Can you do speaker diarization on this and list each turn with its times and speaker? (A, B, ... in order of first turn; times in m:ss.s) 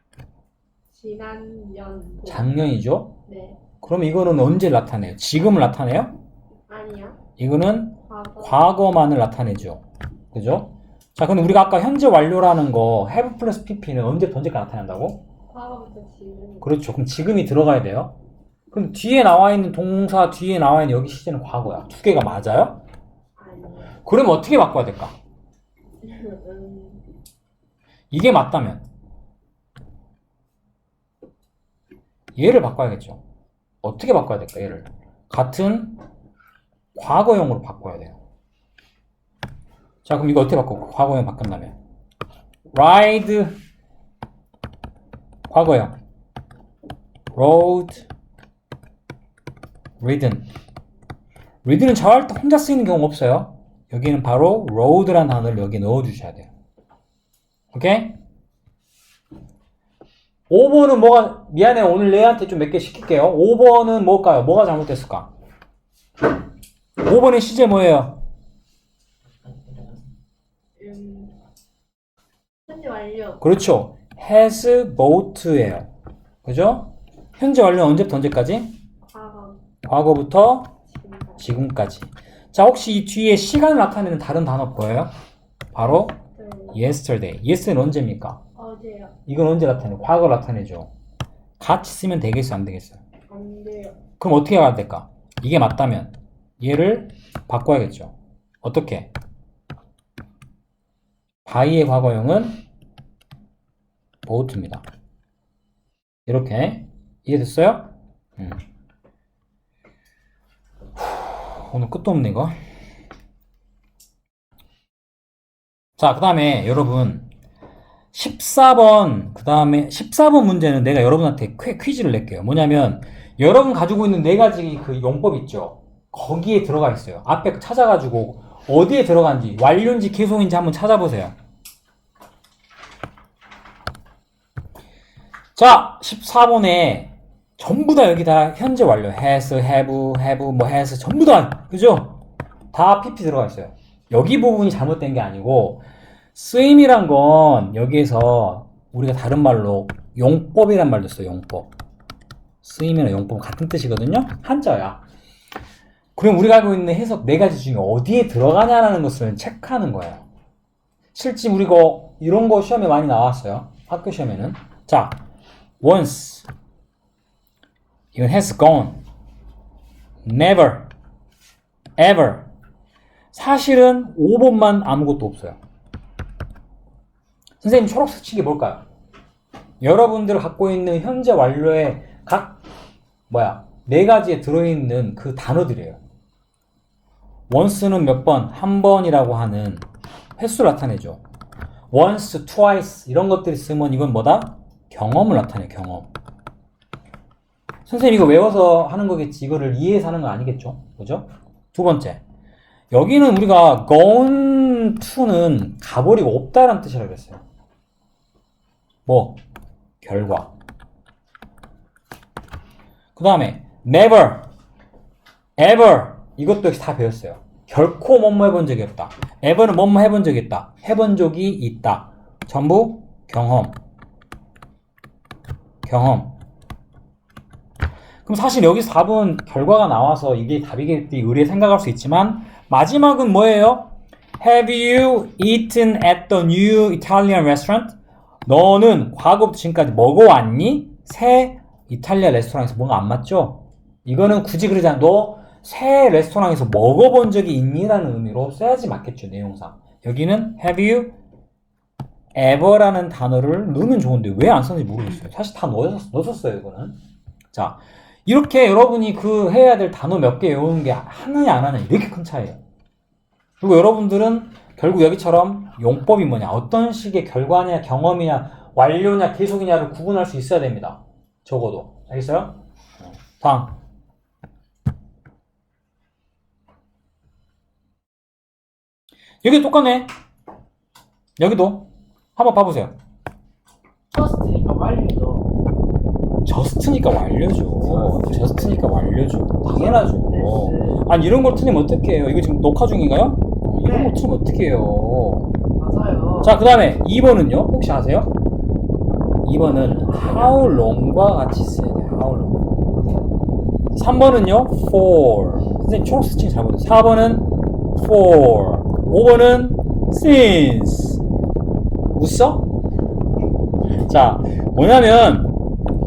0:00.9-0:02.6 A
0:02.3-0:03.1 B
0:03.3-0:03.6 A
0:03.8-0:06.1 B
0:06.7-0:07.2 A
0:07.4-0:15.2 B
0:08.1-0:08.7 A
0:15.5-0:16.7 A
0:16.6-0:18.2 B
0:18.7-0:22.8 B
0:23.4-0:24.0 A
0:24.0-0:25.2 B
0:26.0-0:27.1 A
0:28.1-0:28.8 B
0:32.4-0:33.2 B
0:33.8-0:36.0 B
0:37.0-0:38.2 B
0:40.0-0:41.8 B
0:42.7-0:43.6 B
0:45.5-0:46.0 B
0:47.3-0:48.1 B
0:50.0-0:50.5 B
0:51.6-0:56.5 B
0:57.7-0:58.2 B
1:00.5-1:05.3 B
1:07.0-1:08.2 B
1:10.8-1:11.4 A
1:12.7-1:13.4 A
1:13.4-1:15.9 B
1:16.4-1:18.8 B
1:19.1-1:19.6 A
1:19.8-1:20.8 B
1:20.9-1:21.4 A
1:21.4-1:25.1 B
1:25.7-1:26.2 B
1:26.4-1:26.8 A
1:26.7-1:28.4 B
1:28.6-1:29.2 A
1:29.3-1:30.9 B
1:31.6-1:33.0 B
1:33.3-1:34.0 A
1:34.2-1:39.1 B
1:41.4-1:42.6 B
1:44.2-1:44.8 B
1:46.3-1:48.6 B
1:51.0-1:52.6 B
1:56.0-1:57.3 B
1:58.1-2:11.4 B
2:15.6-2:22.2 B
2:22.7-2:31.7 B
2:32.6-2:35.0 B
2:36.2-2:40.3 B
2:41.1-2:45.2 B
2:45.8-2:46.5 B
2:48.1-2:49.0 B
2:50.2-2:50.9 B
2:52.0-2:52.5 B
2:53.3-2:55.6 B
2:57.6-2:58.8 B
2:59.8-3:02.6 B
3:03.3-3:06.0 B
3:07.5-3:09.9 B
3:10.4-3:11.2 B
3:11.9-3:16.1 B
3:17.9-3:22.2 B
3:22.9-3:27.4 B
3:29.1-3:29.4 B
3:30.0-3:30.5 B
3:33.2-3:34.5 B
3:35.6-3:43.8 B
3:45.8-3:46.4 B
3:48.3-4:11.1 B
4:12.4-4:17.0 B
4:17.5-4:22.6 B
4:23.6-4:33.8 B
4:39.4-4:40.1 B
4:41.4-4:43.0 B
4:44.1-4:45.5 C
4:46.4-4:55.5 B
4:47.8-4:48.9 C
4:49.6-4:51.0 C
4:53.8-4:54.2 C
4:55.8-4:56.6 C
4:56.4-4:58.3 B
4:59.4-5:02.6 B
4:59.8-5:00.8 C
5:02.9-5:03.4 C
5:04.0-5:11.2 B
5:12.2-5:12.7 B
5:14.0-5:15.6 B